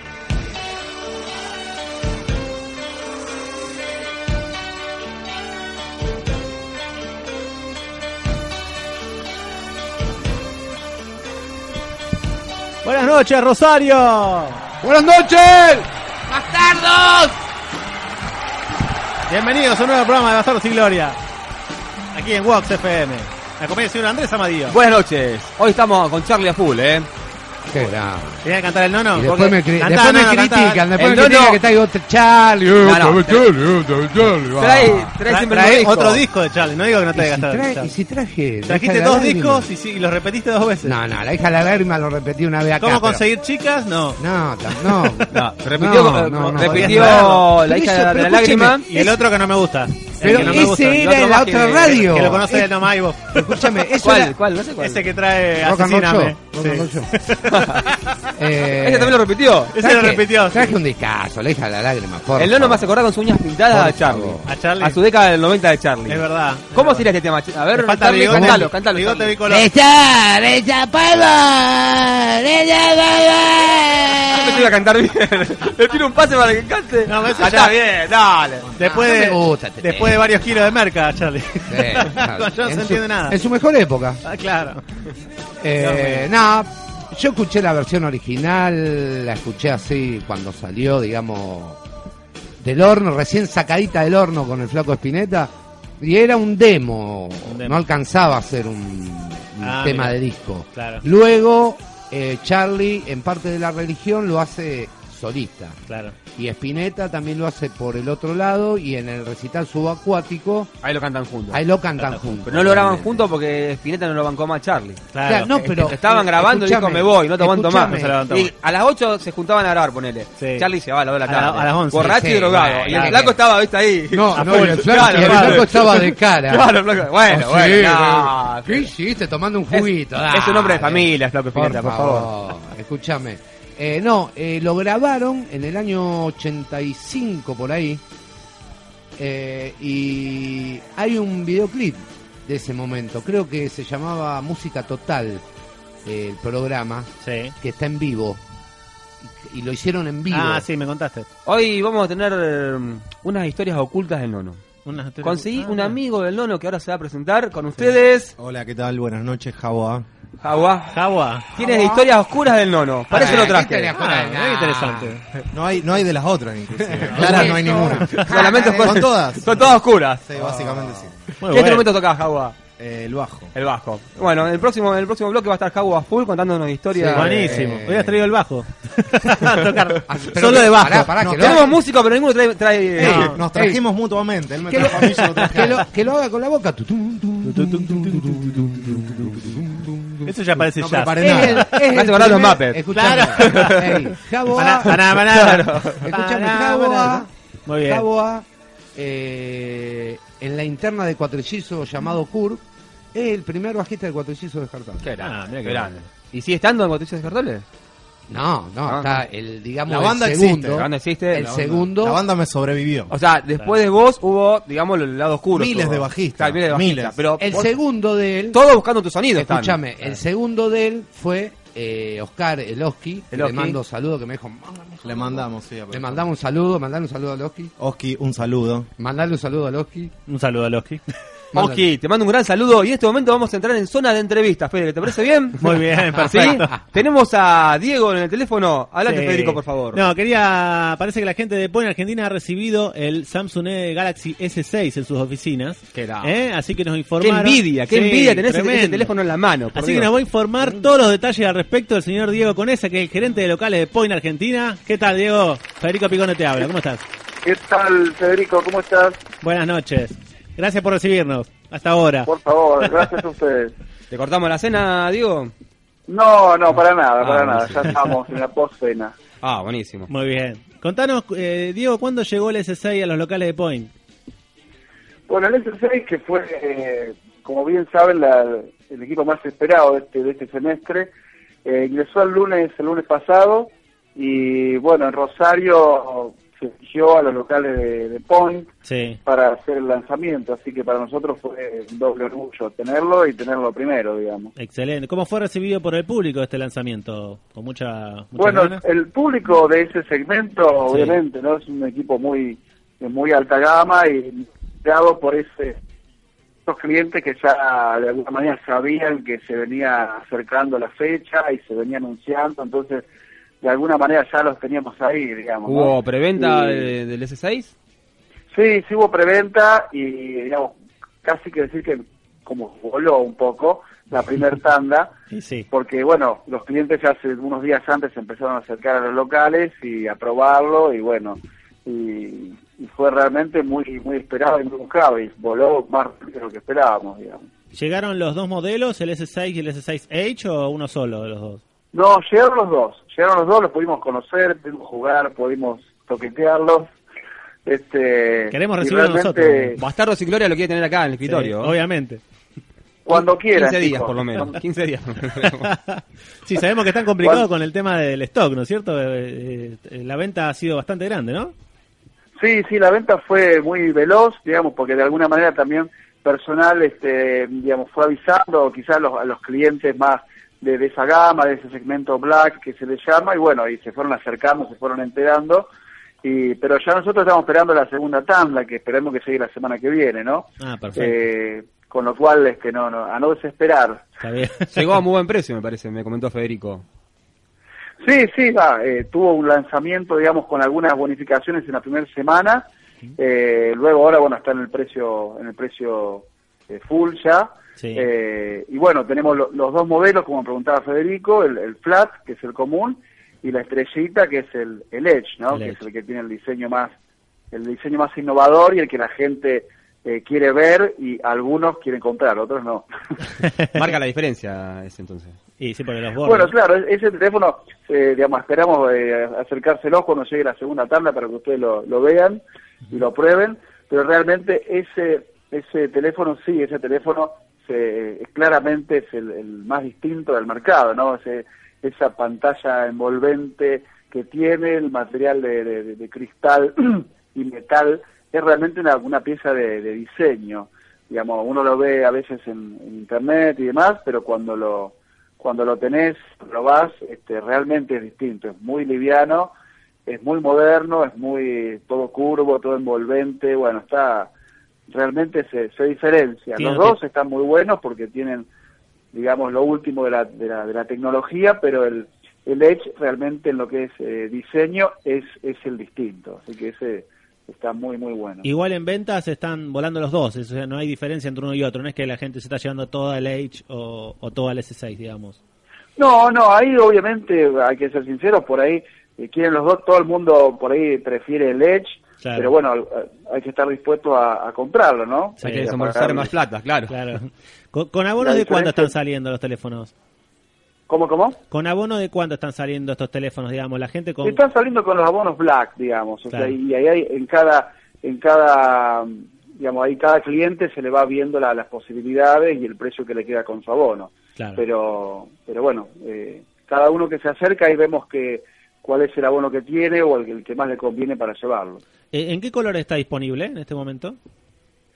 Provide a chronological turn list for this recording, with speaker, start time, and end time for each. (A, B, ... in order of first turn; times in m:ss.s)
0:12.8-0:14.6 A
0:14.8-0:17.4 B
0:19.3-0:21.2 A
0:22.1-0:24.8 A
0:24.7-0:27.1 C
0:27.7-0:28.4 B
0:28.4-0:30.8 A
0:29.1-0:35.1 B
0:31.0-0:31.6 C
0:32.8-0:33.5 C
0:34.5-0:36.2 C
0:35.2-0:37.9 A
0:37.1-0:39.7 B
0:38.6-0:41.0 A
0:40.8-0:43.2 B
0:42.8-0:44.2 A
0:44.2-0:49.1 B
0:44.8-0:45.3 A
0:45.3-0:48.9 C
0:46.3-0:47.4 A
0:48.8-0:53.8 A
0:50.1-0:54.4 B
0:51.0-0:52.2 C
0:54.0-0:55.1 C
0:54.8-0:57.7 A
0:55.6-0:57.1 B
0:57.4-0:57.9 C
0:58.4-0:59.2 B
0:58.8-0:59.7 C
0:59.7-1:00.8 A
0:59.8-1:02.9 B
1:02.4-1:09.4 C
1:03.7-1:04.5 B
1:04.4-1:05.0 A
1:06.1-1:07.0 A
1:07.7-1:09.7 A
1:08.3-1:08.7 B
1:09.4-1:14.7 B
1:14.3-1:18.7 C
1:17.0-1:23.4 A
1:18.8-1:20.2 B
1:21.7-1:24.2 B
1:24.2-1:24.8 A
1:25.6-1:31.8 B
1:25.8-1:26.3 A
1:32.6-1:50.7 B
1:37.4-1:37.8 A
1:39.6-1:40.2 A
1:40.7-1:41.0 A
1:45.9-1:46.2 A
1:50.8-1:51.6 C
1:51.5-1:53.3 B
1:52.0-1:52.4 A
1:52.4-2:08.9 C
1:55.1-1:56.0 A
1:55.2-1:58.2 B
1:57.8-1:58.5 A
2:00.4-2:00.7 A
2:01.2-2:02.3 A
2:01.9-2:03.3 B
2:02.8-2:03.3 A
2:04.1-2:18.0 B
2:04.3-2:05.7 A
2:09.7-2:12.3 C
2:19.2-2:25.4 B
2:26.0-2:28.4 B
2:27.2-2:27.5 A
2:29.4-2:30.6 B
2:30.3-2:31.3 A
2:31.4-2:34.6 C
2:34.8-2:36.0 A
2:35.2-2:38.3 C
2:38.4-2:40.0 D
2:40.4-2:41.0 C
2:40.9-2:41.5 A
2:41.5-2:43.9 C
2:41.6-2:42.1 B
2:43.1-2:45.1 B
2:43.1-2:45.3 A
2:45.5-2:51.3 D
2:46.8-2:49.1 B
2:47.1-2:48.3 A
2:48.1-2:50.2 C
2:50.4-2:51.1 B
2:51.4-2:51.9 A
2:51.5-2:52.6 C
2:52.8-2:53.5 D
2:53.5-2:57.7 C
2:56.9-2:58.2 B
2:57.1-3:01.2 A
3:00.1-3:01.7 B
3:01.3-3:03.4 C
3:03.0-3:05.8 D
3:03.0-3:03.8 B
3:03.1-3:03.3 A
3:04.6-3:10.3 B
3:07.5-3:08.4 A
3:10.2-3:11.8 A
3:10.8-3:11.7 D
3:11.2-3:18.4 B
3:11.9-3:13.9 C
3:12.9-3:14.0 A
3:14.5-3:18.0 A
3:15.3-3:16.1 C
3:19.0-3:22.6 B
3:23.1-3:25.1 B
3:25.0-3:27.6 C
3:25.2-3:26.0 A
3:28.3-3:32.2 B
3:28.8-3:29.2 C
3:29.9-3:30.8 D
3:30.7-3:31.5 C
3:31.4-3:33.1 D
3:33.1-3:37.7 C
3:35.5-3:37.2 D
3:37.4-3:38.6 B
3:38.5-3:39.8 C
3:39.3-3:47.7 B
3:43.3-3:43.8 C
3:45.0-3:46.2 D
3:47.8-3:48.9 D
3:49.0-3:50.1 B
3:50.3-3:51.0 A
3:51.5-3:51.8 B
3:51.5-4:00.1 C
3:55.6-3:56.8 A
3:59.0-4:09.1 A
4:05.9-4:06.3 C
4:07.2-4:10.1 C
4:09.7-4:17.0 A
4:17.4-4:19.2 E
4:19.4-4:22.3 A
4:22.2-4:23.7 E
4:24.1-4:25.5 C
4:26.1-4:29.1 E
4:27.2-4:28.0 C
4:29.4-4:30.1 C
4:30.1-4:33.9 A
4:35.3-4:41.1 E
4:41.6-4:48.7 E
4:48.8-4:49.2 A
4:49.2-4:54.5 E
4:54.6-4:58.8 A
4:58.4-5:05.8 E
5:00.9-5:01.2 A
5:06.6-5:13.0 E
5:13.6-5:16.9 E
5:15.6-5:17.7 C
5:18.5-5:25.1 E
5:25.3-5:25.6 A
5:25.7-5:37.5 E
5:37.7-5:41.6 A
5:41.9-5:46.9 E
5:47.6-5:49.8 E
5:48.5-5:49.8 A
5:49.8-5:51.8 C
5:51.2-5:52.2 A
5:53.0-5:54.5 E
5:53.1-5:55.7 C
5:55.6-6:01.5 A
5:57.2-5:57.4 E
6:02.4-6:15.7 E
6:16.2-6:24.1 E
6:20.6-6:21.1 A
6:24.2-6:24.8 A
6:24.7-6:26.8 C
6:28.0-6:32.6 E
6:33.2-6:46.9 E
6:37.8-6:38.0 A
6:45.5-6:45.8 A
6:47.5-6:52.9 E
6:53.7-6:55.4 C
6:55.6-6:56.5 A
6:56.2-7:29.5 E
7:30.0-7:34.3 E
7:34.9-7:38.4 E
7:36.6-7:37.0 A
7:39.1-7:48.4 E
7:48.4-7:55.4 A
7:56.0-8:06.3 E
8:02.2-8:02.5 A
8:05.4-8:05.7 A
8:05.4-8:07.0 C
8:06.9-8:09.9 A
8:08.2-8:08.9 E
8:10.9-8:11.4 E
8:11.5-8:14.4 A
8:14.2-8:31.8 E
8:24.4-8:24.6 A
8:32.1-8:34.2 A